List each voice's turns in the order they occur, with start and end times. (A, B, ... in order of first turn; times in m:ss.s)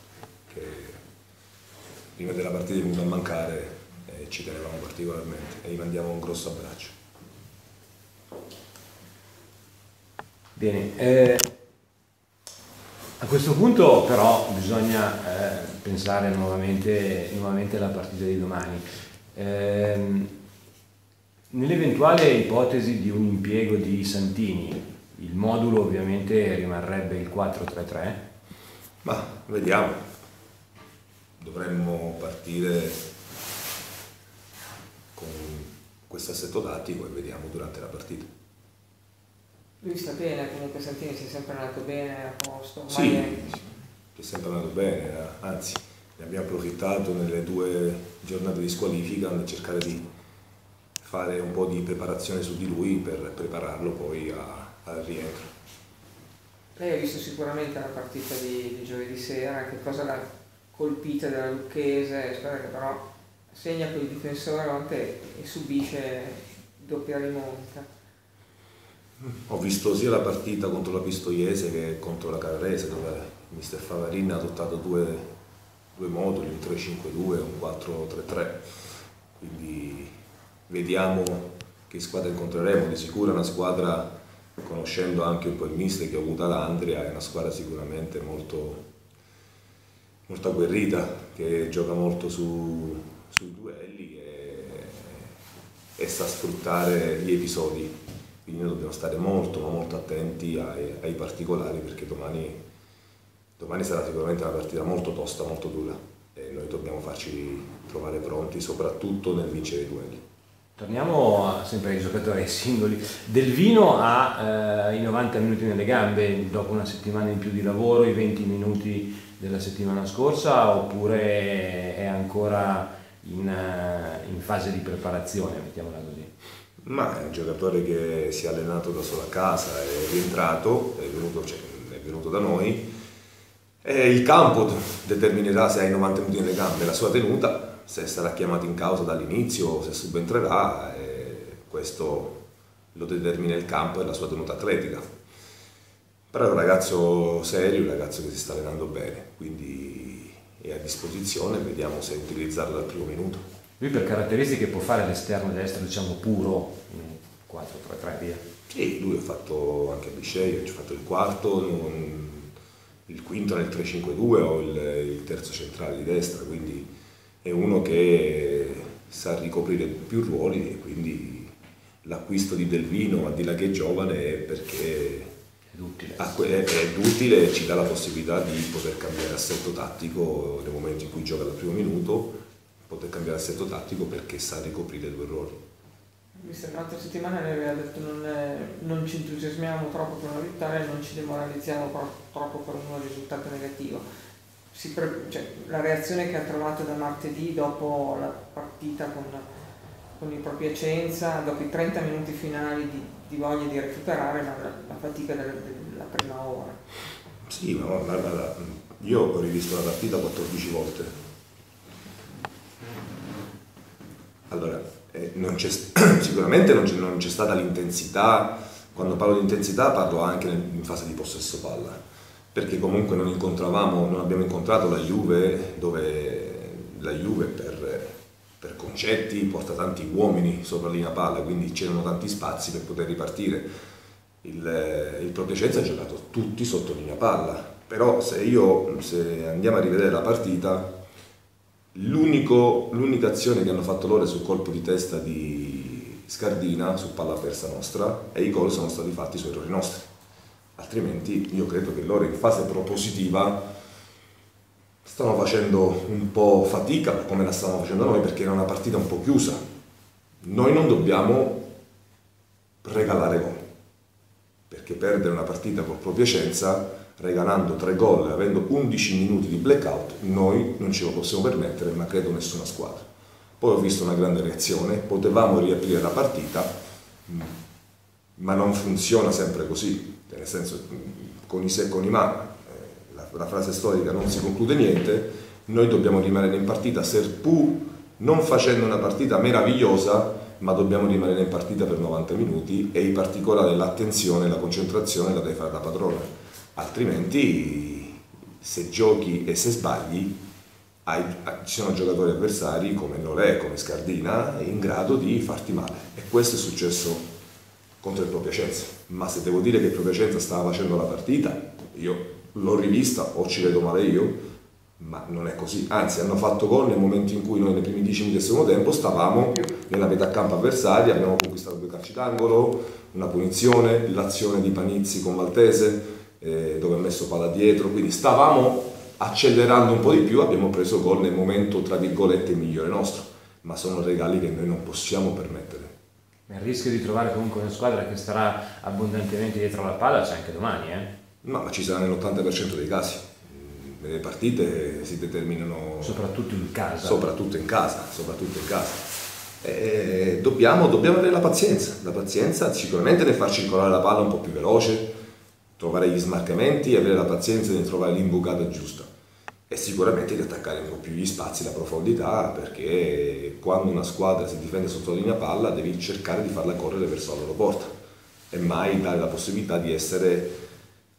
0:00.5-0:01.0 A
0:02.2-0:06.9 A
0:10.6-0:11.5 B
0:13.2-0:18.8 B
0:19.3-0:20.3 B
0:21.5-0:28.2 B
0:29.0-0:30.0 A
0:31.4-0:33.0 A
0:35.2-0:38.3 A
0:39.8-0:43.6 C
0:42.9-0:43.6 A
0:44.1-0:50.0 A
0:51.0-0:55.5 A
0:56.8-1:07.9 C
1:09.2-1:15.3 A
1:15.9-1:18.6 A
1:19.4-1:20.1 A
1:20.7-1:28.8 A
1:30.3-1:35.3 A
1:36.0-1:42.6 A
1:43.6-1:50.2 A
1:50.8-2:06.3 B
2:06.8-2:12.9 A
2:13.8-2:22.4 A
2:22.9-2:25.1 A
2:26.3-2:33.4 A
2:33.8-2:38.4 B
2:38.7-2:42.5 A
2:43.1-2:46.9 A
2:47.4-2:55.3 A
2:55.7-2:56.3 B
2:56.2-3:05.6 A
3:06.4-3:14.0 C
3:14.7-3:19.4 C
3:20.2-3:26.8 C
3:27.4-3:31.1 A
3:34.5-3:42.0 A
3:42.5-3:53.7 A
3:54.4-4:00.9 A
4:01.9-4:10.1 A
4:10.8-4:13.6 A
4:15.0-4:19.6 A
4:20.4-4:21.6 A
4:22.8-4:23.6 A
4:24.7-4:33.0 A
4:33.6-4:36.7 A
4:38.4-5:00.4 A
5:01.0-5:07.2 A
5:08.0-5:14.4 A
5:15.0-5:35.9 A
5:36.5-5:41.1 B
5:41.4-5:46.2 A
5:46.0-5:47.2 B
5:47.0-5:49.1 A
5:49.6-5:55.1 A
5:55.8-5:59.1 A
5:59.7-6:07.9 A
6:08.5-6:10.5 A